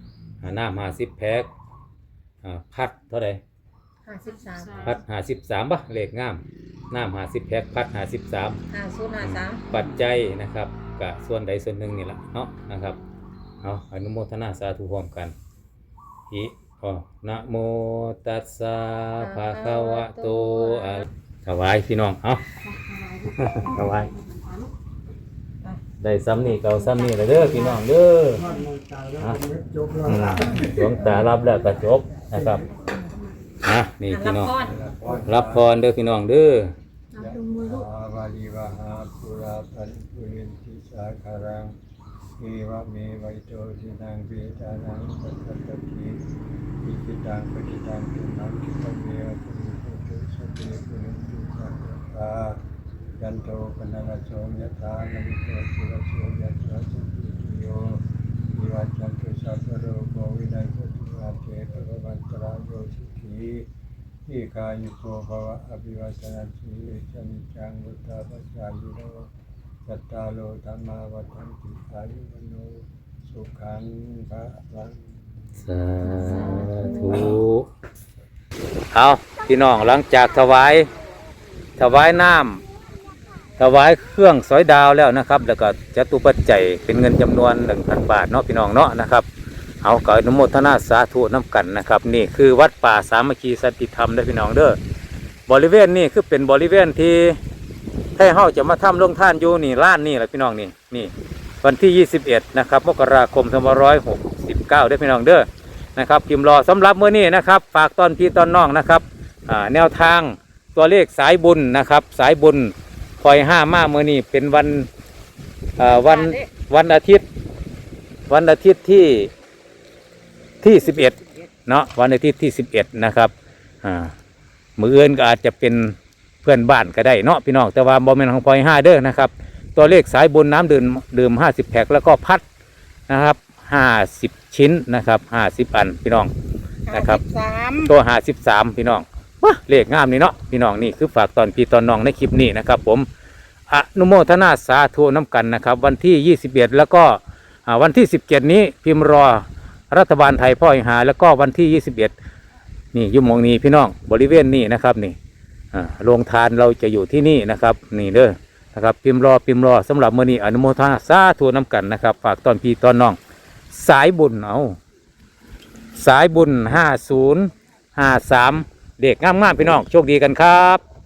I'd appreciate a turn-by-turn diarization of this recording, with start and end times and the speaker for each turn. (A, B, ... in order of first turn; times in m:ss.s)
0:00.4-0:01.5 A
0:02.4-0:03.4 A
0:04.0-0:05.0 B
0:04.8-0:08.6 A
0:08.7-0:09.6 B
0:09.2-0:13.0 A
0:13.6-0:15.4 A
0:16.3-0:22.5 A
0:19.2-0:21.0 B
0:23.1-0:24.1 A
0:26.0-0:28.5 A
0:26.6-0:27.8 B
0:29.1-0:32.7 A
0:32.8-0:33.1 B
0:33.6-0:34.5 A
0:34.1-0:34.8 B
0:34.6-0:35.7 C
0:35.2-0:36.7 A
0:37.2-0:41.7 C
0:42.4-0:46.2 C
0:46.8-0:52.6 C
0:53.2-0:58.0 C
0:58.5-1:03.7 C
1:04.3-1:09.3 C
1:09.8-1:15.3 C
1:15.6-1:17.7 A
1:16.2-1:16.8 B
1:18.9-1:20.9 A
1:21.8-1:22.6 A
1:23.6-1:29.3 A
1:29.8-1:34.8 A
1:35.5-1:37.4 A
1:38.2-1:54.9 A
1:55.8-1:57.3 A
1:55.8-1:56.4 B
1:58.3-1:59.3 A
2:00.6-2:03.3 A
2:03.8-2:04.1 A
2:04.8-2:12.4 A
2:13.1-2:16.3 A
2:16.9-2:17.9 B
2:16.9-2:17.2 A
2:17.8-2:23.1 A
2:23.7-2:32.1 A
2:32.9-2:35.2 A
2:35.7-2:43.2 A
2:43.7-2:44.8 A
2:46.0-2:50.8 A